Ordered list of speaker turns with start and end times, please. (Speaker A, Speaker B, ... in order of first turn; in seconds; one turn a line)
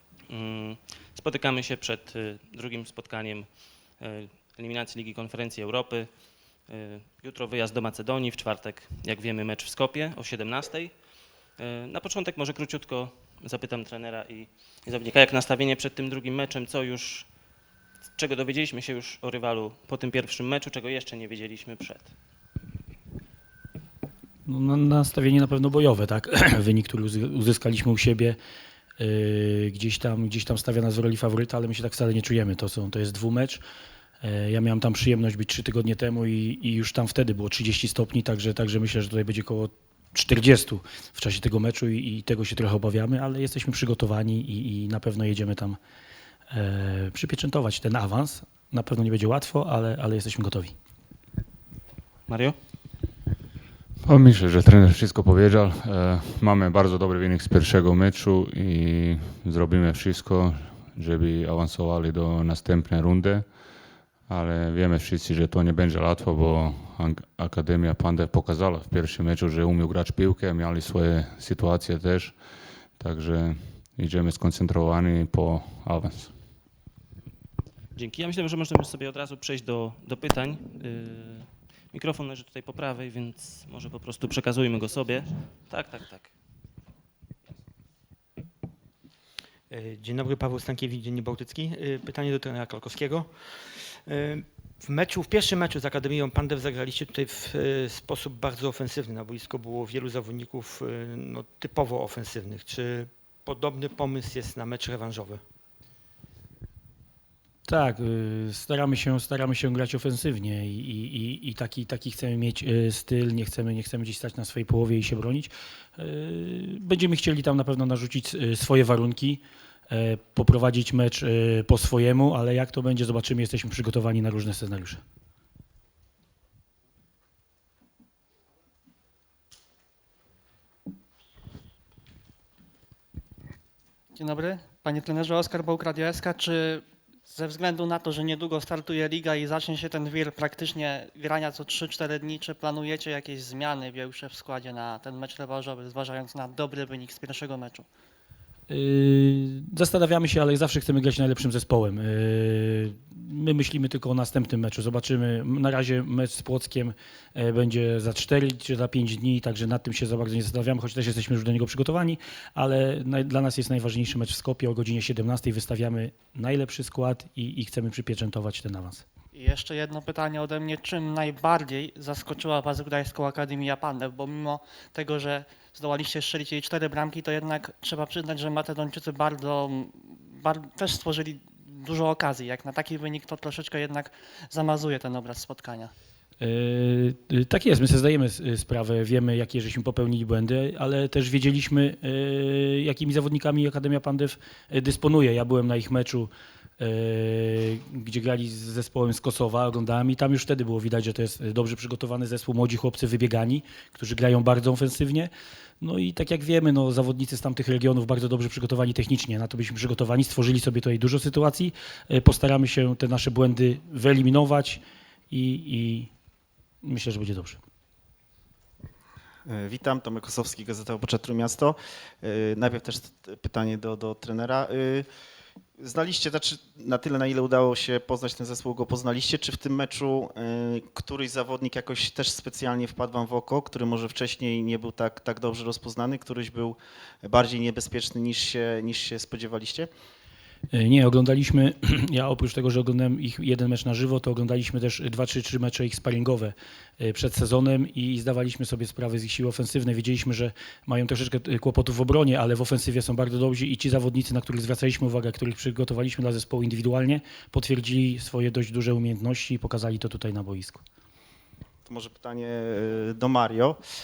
Speaker A: 0.3-6.1
Speaker A: 6.7-10.9
Speaker A: 11.6-17.3
Speaker A: 18.1-22.1
Speaker B: 24.4-28.4
Speaker B: 29.0-33.6
Speaker B: 34.2-45.8
Speaker B: 46.5-50.7
Speaker A: 52.3-52.5
Speaker C: 54.1-63.4
Speaker C: 64.3-72.3
Speaker C: 73.0-76.3
Speaker A: 77.9-86.3
Speaker D: 89.7-105.4
Speaker B: 107.7-125.0
Speaker E: 134.1-147.9
Speaker B: 148.7-169.0
Speaker E: 169.3-185.9
Speaker B: 186.4-216.1
Speaker B: 216.8-217.6
Speaker F: 219.5-225.1
Speaker F: 225.8-239.9
Speaker B: 240.7-260.8
Speaker F: 261.9-263.8